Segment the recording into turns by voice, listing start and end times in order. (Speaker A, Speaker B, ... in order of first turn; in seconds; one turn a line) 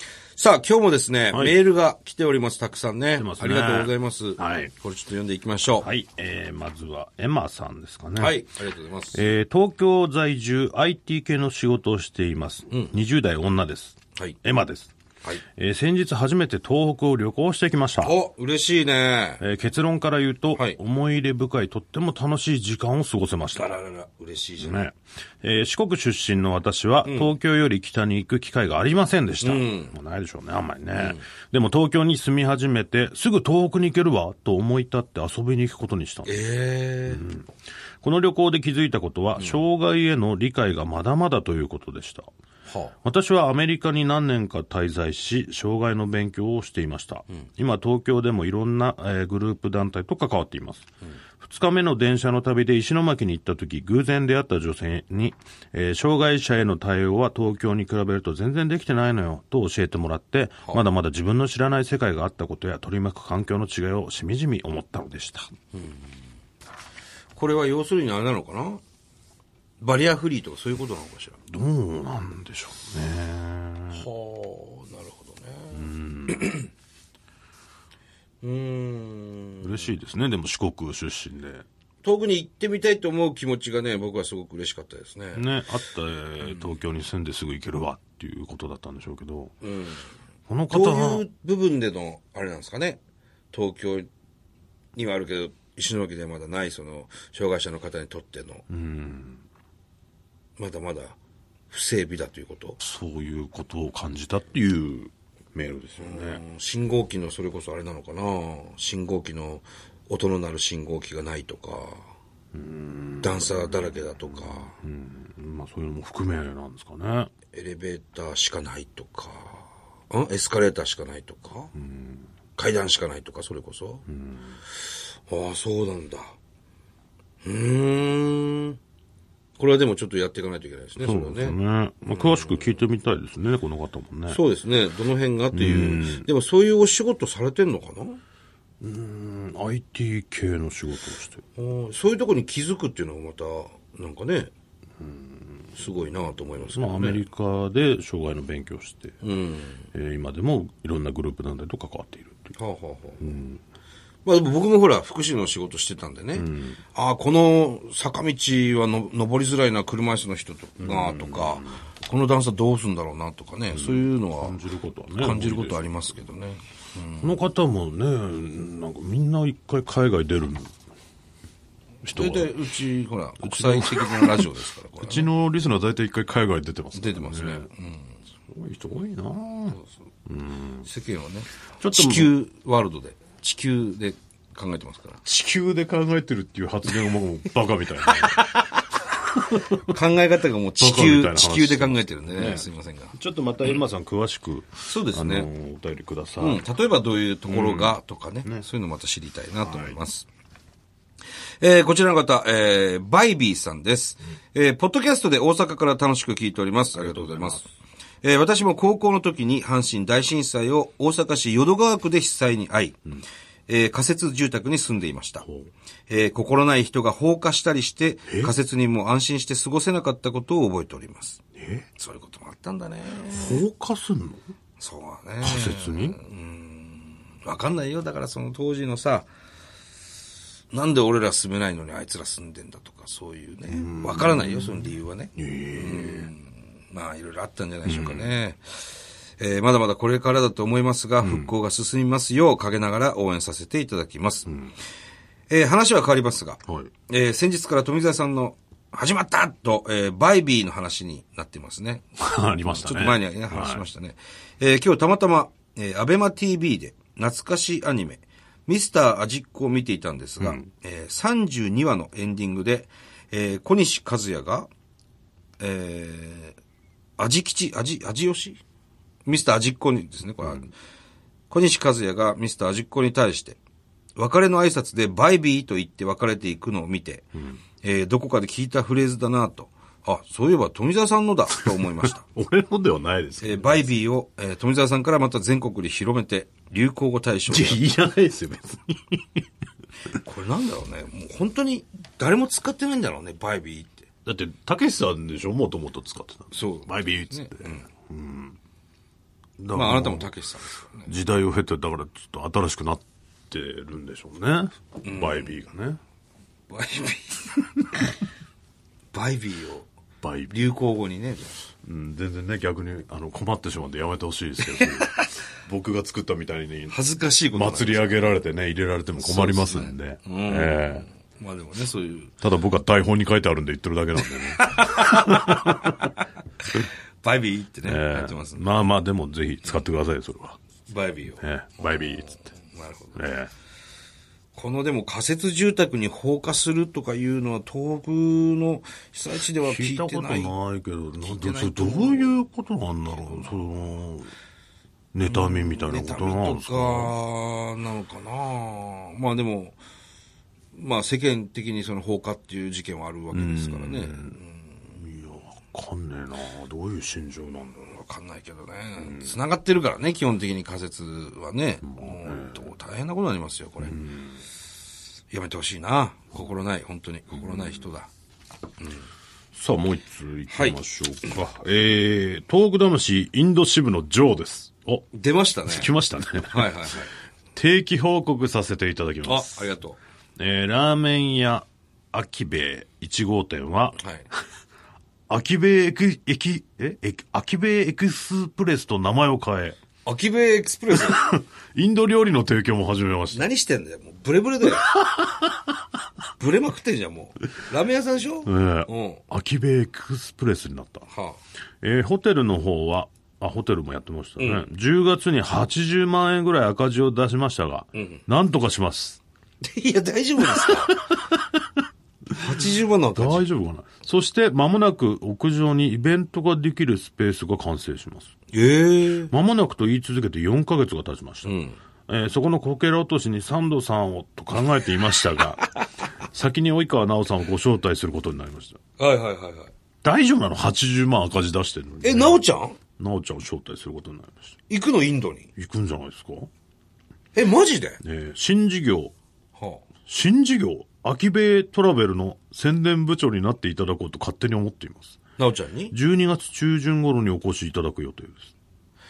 Speaker A: 0.3-5.9
Speaker B: 1.3-1.6
Speaker B: 3.2-4.7
Speaker B: 5.8-8.4
Speaker A: 8.2-9.2
Speaker B: 9.1-14.9
Speaker B: 15.6-18.1
Speaker A: 18.0-19.4
Speaker B: 19.4-23.7
Speaker A: 23.5-24.8
Speaker B: 24.6-36.4
Speaker A: 27.0-27.3
Speaker A: 29.4-29.9
Speaker A: 30.9-31.2
Speaker A: 36.2-37.2
Speaker B: 37.0-37.5
Speaker B: 38.0-42.3
Speaker A: 42.7-42.9
Speaker B: 43.0-50.9
Speaker B: 51.4-65.5
Speaker A: 65.7-66.2
Speaker A: 67.3-68.8
Speaker A: 69.8-71.4
Speaker B: 71.5-74.1
Speaker A: 73.9-76.7
Speaker B: 75.7-76.5
Speaker A: 78.4-79.9
Speaker B: 79.6-81.6
Speaker A: 82.0-85.4
Speaker B: 85.3-89.5
Speaker A: 89.6-90.1
Speaker B: 90.5-91.2
Speaker A: 90.7-93.0
Speaker A: 93.5-94.1
Speaker A: 94.9-98.6
Speaker B: 98.7-99.4
Speaker A: 100.6-101.2
Speaker A: 101.7-102.8
Speaker B: 102.8-106.4
Speaker A: 106.0-112.1
Speaker B: 112.5-117.3
Speaker A: 113.2-114.7
Speaker A: 117.5-121.7
Speaker B: 121.8-122.3
Speaker A: 122.5-124.0
Speaker B: 124.1-124.6
Speaker A: 124.7-126.3
Speaker A: 127.4-128.8
Speaker A: 129.6-131.6
Speaker B: 131.0-134.4
Speaker A: 132.1-132.8
Speaker A: 134.3-138.2
Speaker B: 135.5-136.2
Speaker B: 138.8-141.4
Speaker A: 141.6-144.5
Speaker B: 145.0-145.7
Speaker A: 145.8-147.2
Speaker B: 146.7-149.2
Speaker A: 149.2-149.9
Speaker B: 149.9-152.5
Speaker A: 152.6-153.3
Speaker B: 153.2-153.6
Speaker A: 154.2-164.6
Speaker B: 156.3-156.8
Speaker B: 160.8-161.8
Speaker B: 163.7-165.8
Speaker A: 165.2-167.3
Speaker B: 167.2-170.7
Speaker B: 172.0-172.5
Speaker A: 172.1-175.3
Speaker B: 173.4-174.5
Speaker B: 175.0-177.7
Speaker A: 176.9-178.2
Speaker B: 178.5-180.9
Speaker A: 180.8-185.2
Speaker B: 181.8-182.3
Speaker B: 185.2-188.5
Speaker A: 188.1-188.8
Speaker B: 189.1-189.8
Speaker A: 189.7-193.1
Speaker B: 190.8-196.6
Speaker A: 194.8-195.5
Speaker A: 196.4-200.3
Speaker B: 197.5-198.6
Speaker B: 199.6-199.9
Speaker A: 201.6-207.7
Speaker B: 206.9-207.6
Speaker A: 208.2-213.0
Speaker A: 213.7-215.4
Speaker B: 215.4-215.7
Speaker A: 216.1-221.4
Speaker B: 218.3-218.5
Speaker B: 221.6-221.9
Speaker A: 221.9-223.6
Speaker B: 223.3-224.4
Speaker A: 224.8-229.3
Speaker B: 225.4-226.2
Speaker A: 230.7-244.5
Speaker B: 233.7-236.3
Speaker B: 237.8-238.3
Speaker B: 241.2-241.5
Speaker A: 245.5-252.1
Speaker B: 252.2-253.8
Speaker A: 252.6-264.7
Speaker B: 260.4-260.6
Speaker A: 265.6-266.6
Speaker A: 267.2-268.6
Speaker A: 269.2-270.7
Speaker A: 271.5-273.6
Speaker A: 274.1-282.2
Speaker B: 282.0-283.9
Speaker A: 283.4-287.8
Speaker B: 287.5-289.4
Speaker A: 290.2-294.1
Speaker B: 294.2-298.6
Speaker A: 296.5-297.9
Speaker B: 299.6-300.3
Speaker A: 299.7-301.1
Speaker B: 301.1-306.0
Speaker A: 305.0-305.6
Speaker A: 306.7-307.6
Speaker A: 309.1-309.9
Speaker B: 310.2-310.6
Speaker A: 310.5-311.6
Speaker B: 311.8-316.9
Speaker A: 314.8-315.2
Speaker A: 316.9-318.3
Speaker B: 317.5-321.1
Speaker A: 319.2-322.3
Speaker B: 322.4-326.0
Speaker A: 324.6-328.7
Speaker B: 327.8-330.6
Speaker A: 330.9-333.2
Speaker B: 331.4-332.4
Speaker B: 333.1-333.5
Speaker A: 334.5-340.5
Speaker B: 339.6-344.3
Speaker A: 341.2-342.4
Speaker A: 343.1-343.5
Speaker B: 345.1-347.1
Speaker A: 345.2-349.8
Speaker A: 350.7-354.8
Speaker B: 353.3-354.4
Speaker B: 354.9-357.8
Speaker A: 357.8-363.9
Speaker B: 359.0-359.3
Speaker B: 361.8-362.6
Speaker B: 363.8-364.4
Speaker A: 365.3-368.1
Speaker A: 368.8-369.1
Speaker B: 369.5-375.0
Speaker A: 370.5-370.8
Speaker A: 375.1-375.9
Speaker B: 375.7-376.8
Speaker A: 376.5-377.1
Speaker B: 377.5-379.6
Speaker A: 379.2-380.0
Speaker B: 380.4-384.0
Speaker A: 384.0-384.2
Speaker B: 385.3-389.8
Speaker A: 390.0-391.2
Speaker B: 390.9-393.4
Speaker A: 393.3-394.9
Speaker B: 394.8-395.6
Speaker A: 396.4-399.2
Speaker B: 398.4-401.1
Speaker A: 401.1-401.4
Speaker B: 401.8-409.2
Speaker A: 404.4-404.7
Speaker A: 407.9-408.2
Speaker A: 409.6-411.0
Speaker B: 410.6-411.8
Speaker A: 412.3-413.4
Speaker B: 413.1-418.3
Speaker A: 418.5-419.3
Speaker B: 419.3-421.6
Speaker A: 421.4-421.8
Speaker B: 422.1-425.7
Speaker B: 426.2-428.8
Speaker A: 429.0-429.7
Speaker B: 430.0-432.4
Speaker A: 432.0-432.8
Speaker B: 433.0-434.5
Speaker A: 434.7-435.5
Speaker B: 435.6-436.5
Speaker A: 437.3-438.0
Speaker B: 438.0-439.1
Speaker A: 439.6-439.9
Speaker B: 440.1-445.2
Speaker A: 445.4-445.9
Speaker B: 445.9-448.5